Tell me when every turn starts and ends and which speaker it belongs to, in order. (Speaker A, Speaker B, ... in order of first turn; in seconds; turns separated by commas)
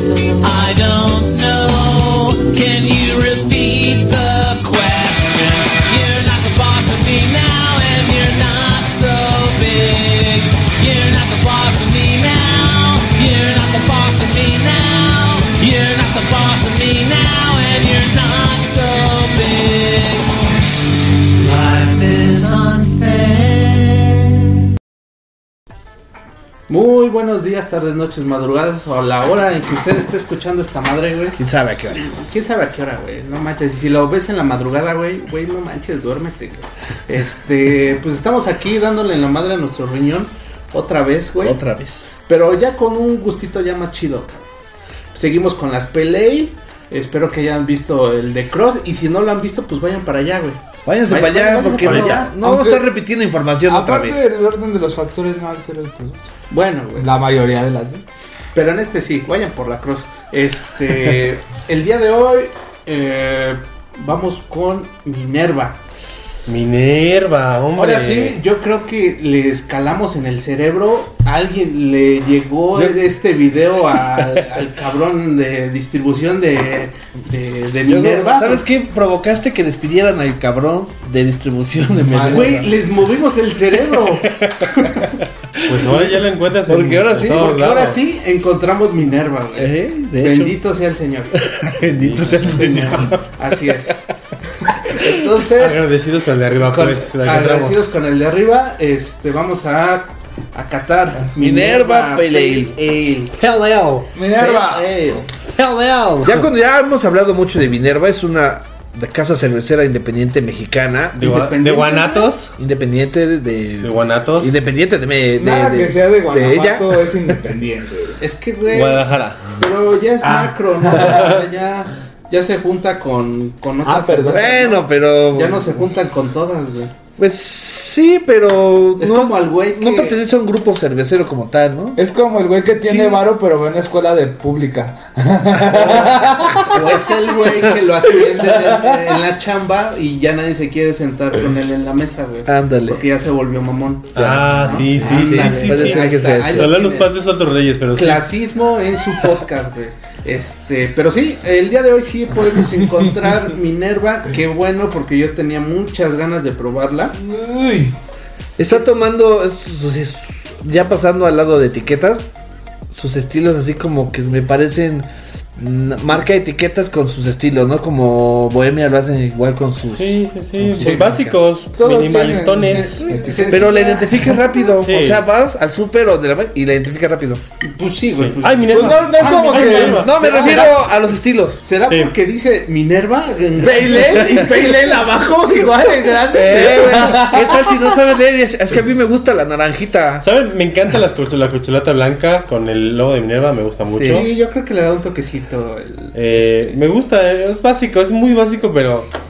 Speaker A: 0.4-20.3, Speaker A: 21.4-24.2, Speaker B: 26.7-31.4, Speaker C: 31.4-32.0, Speaker B: 31.9-41.6, Speaker C: 41.4-42.1, Speaker B: 42.3-44.5, Speaker B: 45.1-52.3, Speaker C: 50.8-54.2, Speaker D: 51.8-52.9, Speaker D: 53.6-56.3, Speaker B: 56.5-57.1, Speaker D: 57.0-58.0, Speaker B: 58.5-65.8, Speaker E: 66.5-68.4, Speaker B: 67.8-78.7, Speaker C: 72.7-73.0, Speaker C: 77.8-82.7, Speaker D: 82.0-82.7, Speaker B: 82.2-85.1, Speaker C: 85.6-87.6, Speaker E: 85.6-88.0, Speaker B: 87.3-91.4, Speaker C: 89.6-90.5, Speaker C: 91.3-93.2, Speaker E: 91.9-93.1, Speaker B: 92.3-94.0, Speaker B: 94.9-95.8, Speaker E: 95.5-97.9, Speaker D: 96.7-97.0, Speaker B: 96.8-103.3, Speaker C: 101.3-102.8, Speaker A: 103.4-104.0, Speaker D: 104.1-104.9, Speaker B: 104.3-105.3, Speaker E: 105.6-106.5, Speaker A: 105.6-105.9, Speaker C: 106.2-111.2, Speaker E: 111.1-112.5, Speaker B: 111.2-112.3, Speaker C: 112.6-117.2, Speaker E: 113.8-114.6, Speaker D: 115.3-118.2, Speaker B: 118.2-126.9, Speaker E: 118.7-119.6, Speaker D: 120.2-121.4, Speaker D: 123.8-124.5, Speaker C: 124.3-125.9, Speaker C: 127.2-132.0, Speaker B: 129.0-130.2, Speaker D: 131.9-136.9, Speaker B: 132.8-133.2, Speaker B: 135.7-147.1, Speaker D: 138.2-139.2, Speaker C: 142.5-143.0, Speaker C: 144.1-146.7, Speaker E: 144.1-148.3, Speaker B: 147.9-157.2, Speaker D: 157.2-157.9, Speaker C: 158.6-162.2, Speaker C: 162.9-171.2, Speaker E: 169.8-173.1, Speaker B: 170.8-171.1, Speaker D: 171.8-174.3, Speaker B: 172.6-174.3, Speaker C: 173.5-177.4, Speaker E: 174.8-175.2, Speaker B: 177.6-180.8, Speaker E: 178.1-180.8, Speaker D: 178.7-180.1, Speaker C: 179.8-181.6, Speaker B: 181.6-184.6, Speaker E: 181.9-182.1, Speaker D: 183.6-188.0, Speaker C: 186.3-190.2, Speaker E: 190.2-194.3, Speaker C: 193.8-194.3, Speaker B: 194.0-196.8, Speaker E: 196.1-199.1